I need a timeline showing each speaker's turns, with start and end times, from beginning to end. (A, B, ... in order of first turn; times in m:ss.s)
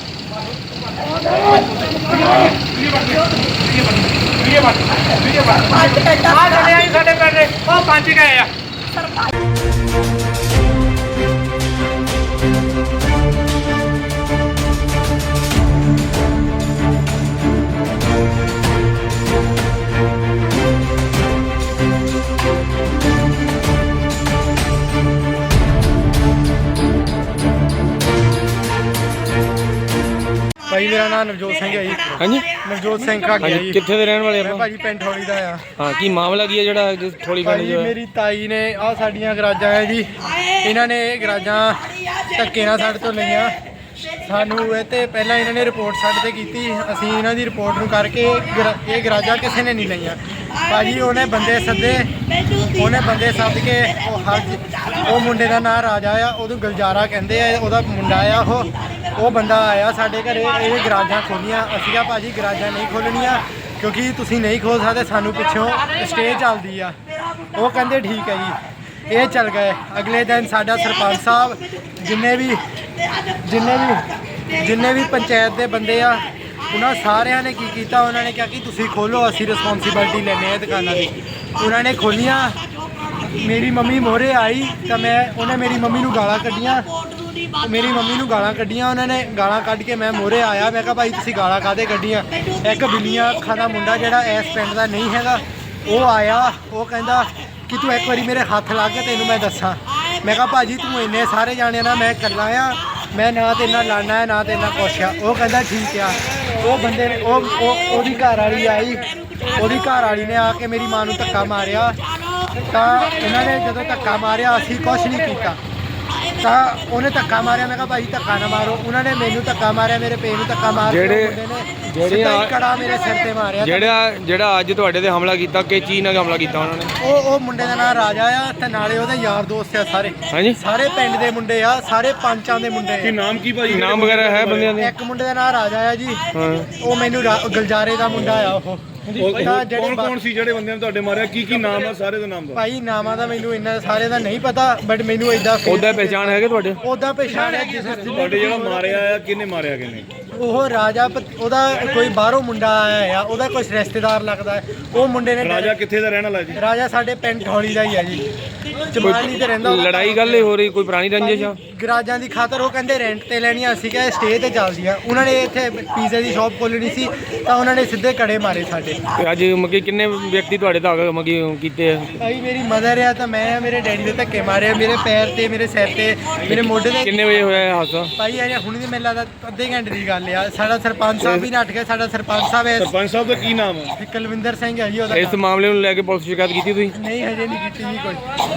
0:01.1-0:08.5 A
0:30.7-0:33.8 B
0:32.2-0:32.5 C
0:33.4-0:34.7 C
0:34.4-0:35.7 B
0:35.8-0:38.0 C
0:37.4-1:07.0 B
1:07.5-1:12.7 B
1:13.2-1:26.9 B
1:27.4-1:52.0 B
1:52.6-1:55.6 B
1:56.4-2:04.0 B
2:00.9-2:02.5 C
2:03.6-2:06.9 C
2:07.0-2:13.2 B
2:10.3-2:10.6 C
2:13.0-2:14.8 D
2:13.7-2:14.9 C
2:14.8-2:16.2 B
2:16.3-2:16.7 C
2:16.7-2:20.2 B
2:19.1-2:19.5 A
2:19.2-2:22.6 D
2:22.5-2:29.1 B
2:25.6-2:26.8 C
2:27.3-2:28.2 A
2:28.1-2:30.1 D
2:30.3-2:35.8 B
2:35.4-2:36.6 D
2:36.6-2:40.5 B
2:39.0-2:41.6 C
2:41.2-2:49.0 B
2:49.2-2:52.2 C
2:52.2-2:57.2 B
2:56.5-2:58.1 C
2:58.2-3:02.9 B
3:01.2-3:01.5 C
3:02.8-3:04.0 D
3:04.0-3:05.4 B
3:05.1-3:07.0 C
3:06.9-3:08.4 B